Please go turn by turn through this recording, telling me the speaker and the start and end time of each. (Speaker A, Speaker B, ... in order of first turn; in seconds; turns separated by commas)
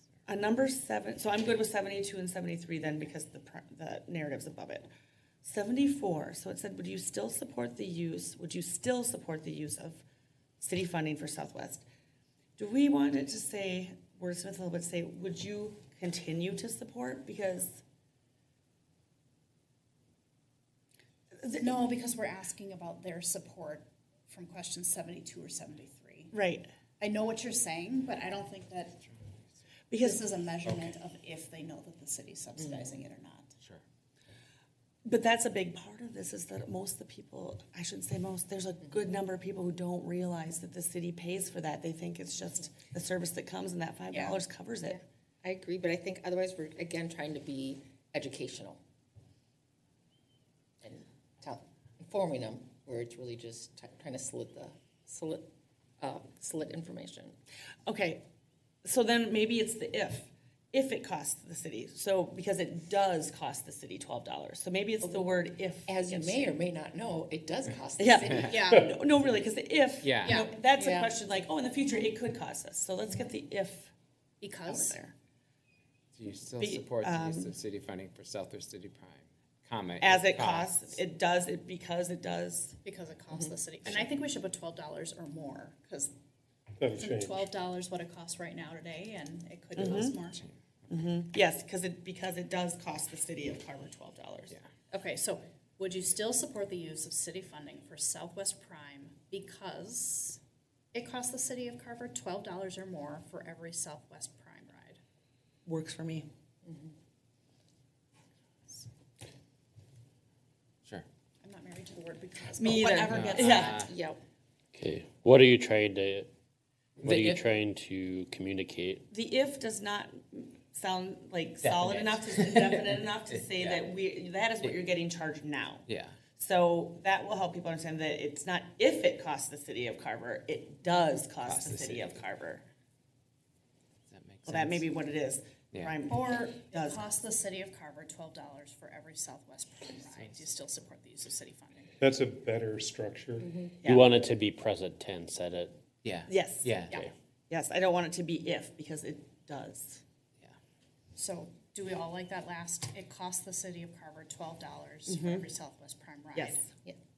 Speaker A: 0.2-4.9, Speaker A: 5.4-10.0, Speaker A: 10.6-11.8, Speaker A: 12.6-17.8, Speaker A: 21.4-21.7, Speaker B: 21.5-26.3, Speaker A: 26.3-26.7, Speaker B: 27.0-29.0, Speaker A: 29.9-30.2, Speaker B: 30.0-33.5, Speaker C: 32.6-32.8, Speaker A: 35.0-45.0, Speaker B: 44.1-44.4, Speaker C: 44.9-48.8, Speaker C: 50.8-57.4, Speaker A: 57.9-58.2, Speaker A: 58.8-66.5, Speaker C: 65.8-68.5, Speaker A: 68.0-73.9, Speaker B: 68.5-68.9, Speaker D: 70.0-70.5, Speaker B: 70.2-71.1, Speaker B: 74.4-75.0, Speaker A: 74.7-75.1, Speaker D: 76.1-81.0, Speaker A: 76.6-77.5, Speaker A: 80.0-82.8, Speaker B: 82.8-86.1, Speaker E: 86.8-87.5, Speaker B: 87.0-90.4, Speaker A: 89.8-90.2, Speaker D: 90.0-90.5, Speaker A: 90.9-94.5, Speaker B: 94.9-100.4, Speaker B: 100.9-105.0, Speaker A: 105.7-106.3, Speaker C: 106.6-106.9, Speaker B: 111.4-113.9, Speaker A: 112.5-113.8, Speaker D: 113.1-113.9, Speaker C: 113.8-114.2, Speaker F: 114.7-116.3, Speaker D: 117.0-117.4, Speaker F: 117.0-119.0, Speaker A: 119.1-132.7, Speaker D: 121.6-123.8, Speaker D: 125.9-126.2, Speaker D: 131.4-132.2, Speaker D: 134.1-134.8, Speaker A: 134.4-137.0, Speaker B: 136.1-142.0, Speaker D: 140.0-140.5, Speaker E: 142.0-143.5, Speaker C: 143.4-143.8, Speaker A: 143.8-144.1, Speaker F: 143.8-145.8, Speaker D: 146.0-147.1, Speaker A: 146.3-146.8, Speaker A: 147.5-150.0, Speaker B: 151.1-156.7, Speaker A: 155.1-155.4, Speaker A: 156.3-156.7